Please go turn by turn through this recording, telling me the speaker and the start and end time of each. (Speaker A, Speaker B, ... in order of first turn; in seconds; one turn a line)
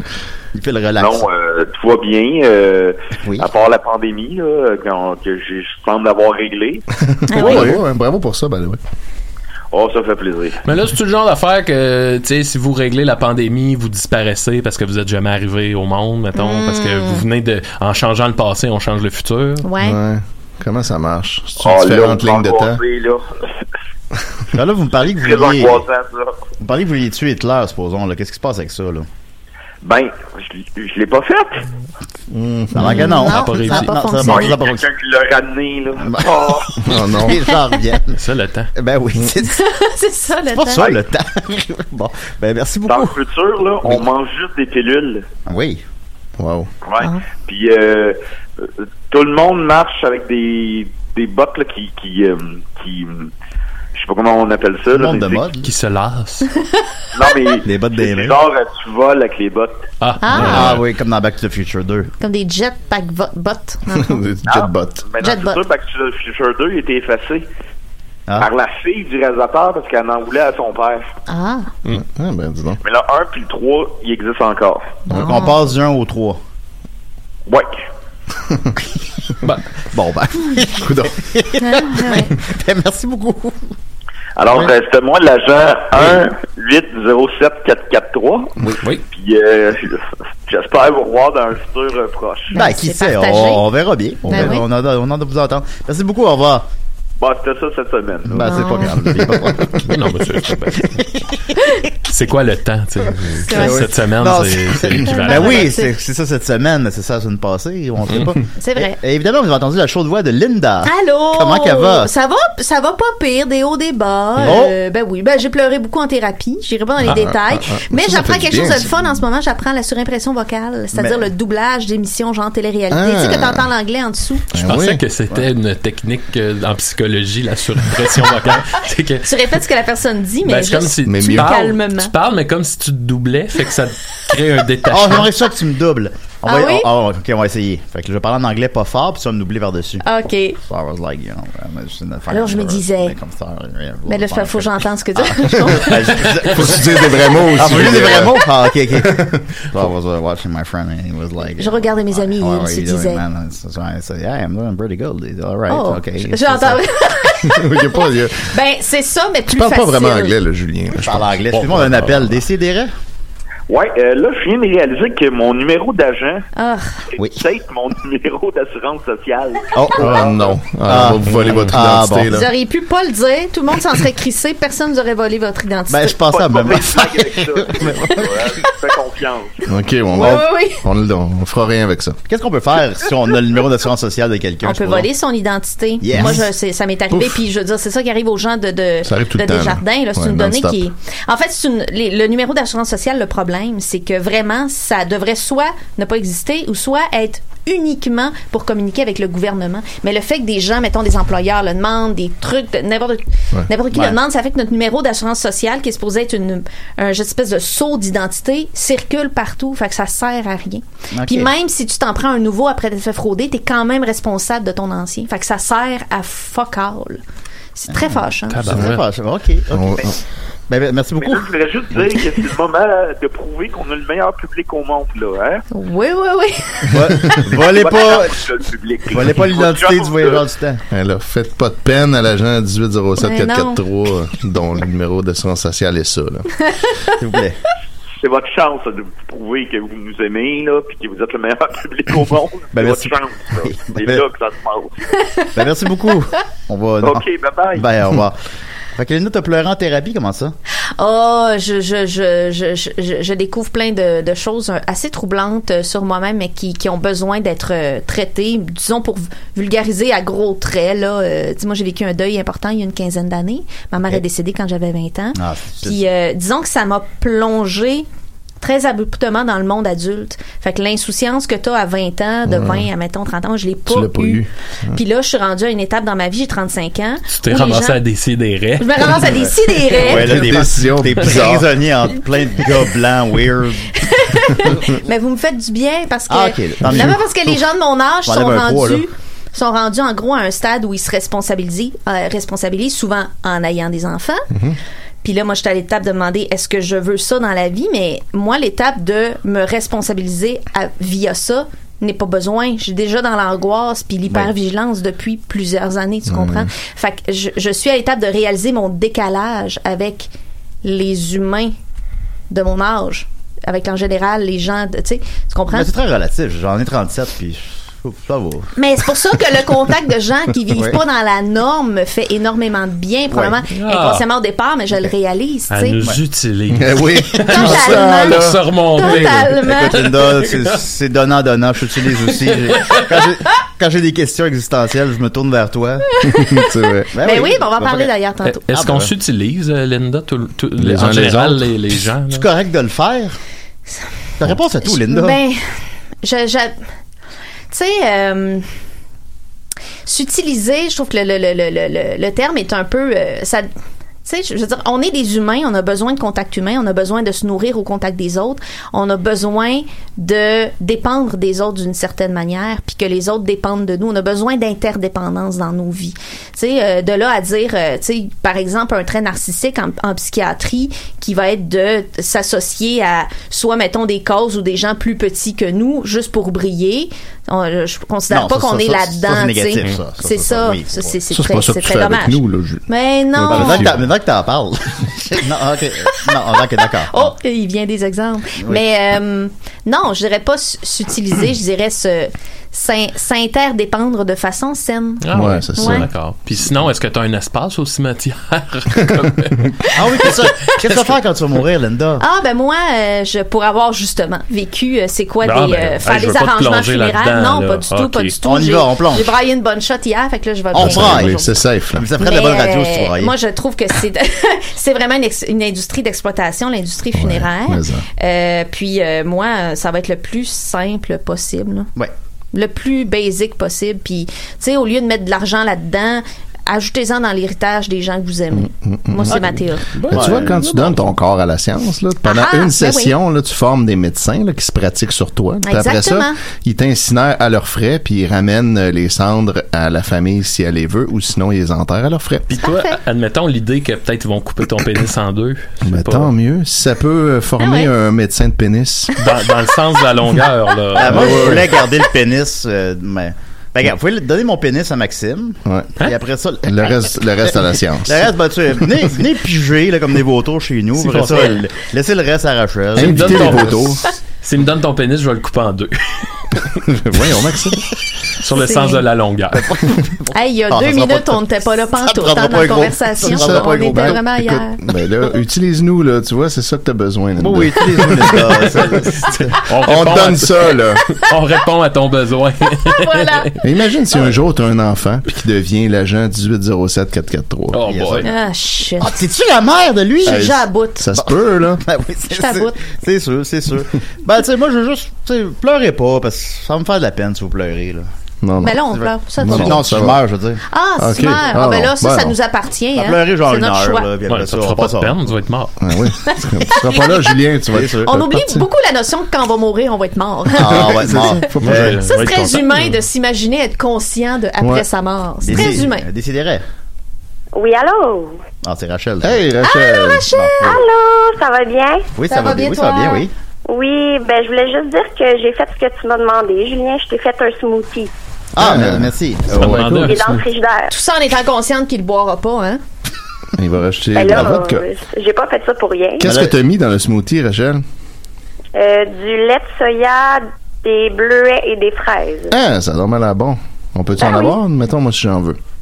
Speaker A: 0.5-1.2
Speaker B: 1.0-6.8
Speaker A: 3.2-3.5
Speaker C: 7.0-8.8
Speaker D: 7.3-7.8
Speaker B: 9.7-10.6
Speaker E: 10.6-19.6
Speaker D: 16.4-17.2
Speaker D: 19.6-20.0
Speaker C: 19.8-22.8
Speaker B: 21.6-23.2
Speaker A: 24.5-25.8
Speaker B: 25.2-26.3
Speaker A: 26.6-29.1
Speaker B: 29.8-31.7
Speaker C: 32.3-33.3
Speaker A: 32.7-34.9
Speaker D: 32.8-34.5
Speaker E: 33.3-33.9
Speaker B: 34.2-36.8
Speaker A: 36.0-38.2
Speaker C: 36.8-37.4
Speaker E: 38.1-38.7
Speaker A: 38.7-39.6
Speaker D: 39.4-41.0
Speaker A: 40.5-43.1
Speaker B: 42.9-45.2
Speaker A: 45.5-45.8
Speaker C: 46.4-46.7
Speaker B: 46.8-53.3
Speaker B: 53.9-55.5
Speaker A: 54.9-55.7
Speaker E: 55.6-56.5
Speaker B: 57.1-59.9
Speaker A: 57.6-58.4
Speaker E: 60.0-60.8
Speaker D: 60.2-60.6
Speaker A: 60.3-62.1
Speaker D: 62.2-64.2
Speaker C: 63.9-65.0
Speaker B: 64.5-67.5
Speaker D: 65.2-65.6
Speaker B: 68.4-71.1
Speaker D: 71.3-71.7
Speaker C: 71.9-72.8
Speaker B: 72.8-75.0
Speaker A: 75.1-76.4
Speaker D: 75.2-75.5
Speaker B: 77.5-77.7
Speaker A: 79.9-83.7
Speaker C: 80.8-81.2
Speaker D: 81.6-82.3
Speaker B: 84.4-88.6
Speaker B: 89.1-92.5
Speaker D: 92.5-93.7
Speaker A: 92.5-96.7
Speaker D: 94.3-94.6
Speaker B: 97.2-98.5
Speaker A: 98.3-100.1
Speaker D: 98.4-98.9
Speaker E: 99.8-101.0
Speaker A: 100.8-101.4
Speaker D: 101.6-101.8
Speaker E: 102.1-105.7
Speaker D: 103.4-103.8
Speaker A: 103.5-112.1
Speaker D: 105.0-105.9
Speaker D: 108.6-109.0
Speaker D: 110.8-124.5
Speaker A: 114.4-114.7
Speaker C: 117.0-119.0
Speaker A: 120.9-121.3
Speaker C: 122.9-123.7
Speaker C: 124.5-125.0
Speaker E: 124.6-129.3
Speaker D: 129.2-132.1
Speaker E: 130.4-135.3
Speaker C: 131.1-131.6
Speaker A: 134.9-140.0
Speaker D: 136.4-136.9
Speaker D: 140.0-140.6
Speaker A: 140.6-156.8
Speaker D: 142.3-143.2
Speaker D: 144.1-146.3
Speaker C: 146.5-149.4
Speaker D: 151.6-153.2
Speaker D: 155.7-160.3
Speaker C: 157.4-158.5
Speaker C: 159.5-162.0
Speaker A: 161.0-162.9
Speaker B: 163.7-166.4
Speaker D: 166.6-167.0
Speaker B: 167.1-170.6
Speaker A: 169.7-170.2
Speaker C: 169.9-172.5
Speaker A: 170.8-172.3
Speaker D: 172.3-176.2
Speaker A: 175.9-178.3
Speaker B: 176.2-179.7
Speaker C: 179.7-182.2
Speaker D: 180.1-180.8
Speaker A: 182.3-185.1
Speaker D: 184.6-217.2
Speaker A: 186.0-186.5
Speaker C: 186.1-186.4
Speaker C: 187.1-187.4
Speaker C: 189.0-190.8
Speaker A: 211.1-211.5
Speaker D: 217.8-218.7
Speaker A: 217.9-221.5
Speaker E: 218.5-219.0
Speaker C: 219.7-220.1
Speaker B: 221.2-225.6
Speaker D: 225.7-227.3
Speaker A: 226.9-228.4
Speaker B: 227.6-230.4
Speaker A: 229.1-230.8
Speaker C: 230.9-236.5
Speaker D: 233.2-233.8
Speaker D: 236.7-237.1
Speaker A: 237.2-237.6
Speaker B: 238.2-245.0
Speaker A: 242.7-244.2
Speaker A: 245.5-247.2
Speaker B: 247.0-247.9
Speaker A: 247.8-248.4
Speaker A: 248.9-250.5
Speaker D: 251.0-268.1
Speaker A: 265.4-266.0
Speaker D: 268.6-278.0
Speaker C: 272.5-272.9
Speaker C: 273.9-275.0
Speaker E: 277.3-279.3
Speaker D: 278.8-280.4
Speaker A: 279.3-283.9
Speaker C: 280.0-281.8
Speaker D: 283.9-294.5
Speaker A: 286.3-287.6
Speaker A: 288.2-289.1
Speaker D: 295.2-310.3
Speaker C: 306.3-306.7
Speaker D: 310.8-311.7
Speaker D: 312.5-315.9
Speaker A: 315.7-318.7
Speaker D: 318.8-326.0
Speaker A: 320.7-321.0
Speaker A: 323.3-323.6
Speaker E: 323.8-324.2
Speaker E: 325.7-330.7
Speaker C: 326.7-328.6
Speaker D: 327.5-328.4
Speaker D: 328.9-330.0
Speaker A: 329.6-336.1
Speaker E: 332.3-333.0
Speaker D: 336.2-336.7
Speaker C: 336.2-337.1
Speaker A: 337.1-338.1
Speaker D: 337.2-338.6
Speaker E: 338.4-342.4
Speaker A: 338.7-339.1
Speaker C: 340.8-341.8
Speaker A: 342.3-343.4
Speaker A: 344.4-345.4
Speaker D: 344.8-345.6
Speaker D: 346.2-346.8
Speaker D: 347.7-348.6
Speaker D: 350.1-353.7
Speaker D: 354.2-383.9
Speaker A: 378.3-381.1
Speaker C: 381.3-384.0
Speaker A: 383.5-387.3
Speaker D: 387.1-395.2
Speaker E: 395.2-399.7
Speaker C: 395.3-396.1
Speaker D: 395.8-396.1
Speaker A: 399.9-402.2
Speaker D: 402.2-411.5
Speaker E: 405.4-408.3
Speaker A: 408.4-409.3
Speaker A: 410.7-413.3
Speaker C: 410.7-412.1
Speaker D: 412.2-421.9
Speaker C: 417.1-418.0
Speaker D: 422.5-429.9
Speaker C: 428.5-429.4
Speaker A: 429.3-429.6
Speaker E: 429.9-431.0
Speaker C: 430.1-442.5
Speaker A: 430.1-430.6
Speaker D: 432.2-433.1
Speaker D: 435.6-436.4
Speaker E: 442.5-446.3
Speaker D: 442.6-443.0
Speaker C: 445.8-449.1
Speaker D: 447.6-447.9
Speaker E: 449.2-451.6
Speaker A: 450.9-463.8
Speaker C: 451.0-451.7
Speaker C: 455.6-455.9
Speaker C: 456.6-458.3
Speaker E: 461.0-461.6
Speaker C: 462.9-464.1
Speaker E: 463.0-466.7
Speaker C: 466.8-467.9
Speaker E: 468.4-469.7
Speaker D: 468.5-469.0
Speaker A: 469.5-471.4
Speaker D: 470.3-474.8
Speaker A: 471.9-474.2
Speaker C: 473.2-478.8
Speaker A: 477.4-479.6
Speaker E: 479.6-483.5
Speaker C: 479.7-481.0
Speaker D: 482.8-483.5
Speaker C: 483.6-487.8
Speaker E: 487.7-488.3
Speaker A: 487.9-488.3
Speaker D: 488.2-489.1
Speaker A: 489.0-490.5
Speaker D: 490.2-491.1
Speaker C: 490.2-491.8
Speaker A: 491.2-498.1
Speaker D: 492.3-492.8
Speaker C: 498.4-500.2
Speaker D: 498.6-499.9
Speaker A: 498.9-500.6
Speaker D: 500.7-504.1
Speaker C: 501.0-502.3
Speaker A: 502.9-505.2
Speaker E: 504.3-505.8
Speaker C: 505.8-508.6
Speaker D: 506.2-507.1
Speaker A: 507.7-508.1
Speaker D: 508.0-511.4
Speaker A: 510.6-511.9
Speaker C: 510.6-512.0
Speaker E: 511.6-512.9
Speaker D: 512.0-516.0
Speaker C: 514.6-514.9
Speaker A: 515.4-516.6
Speaker F: 517.5-518.4
Speaker A: 518.6-519.4
Speaker C: 519.2-520.3
Speaker D: 519.6-520.7
Speaker A: 520.3-520.8
Speaker F: 520.6-522.1
Speaker A: 522.1-523.3
Speaker D: 522.3-523.2
Speaker F: 523.7-528.1
Speaker A: 528.5-529.9
Speaker C: 528.6-530.4
Speaker E: 529.5-530.4
Speaker F: 530.0-530.9
Speaker D: 530.9-532.8
Speaker C: 533.5-534.8
Speaker F: 534.1-536.3
Speaker C: 536.2-537.8
Speaker A: 536.2-536.5
Speaker F: 538.7-542.5
Speaker C: 542.5-545.6
Speaker F: 544.2-544.6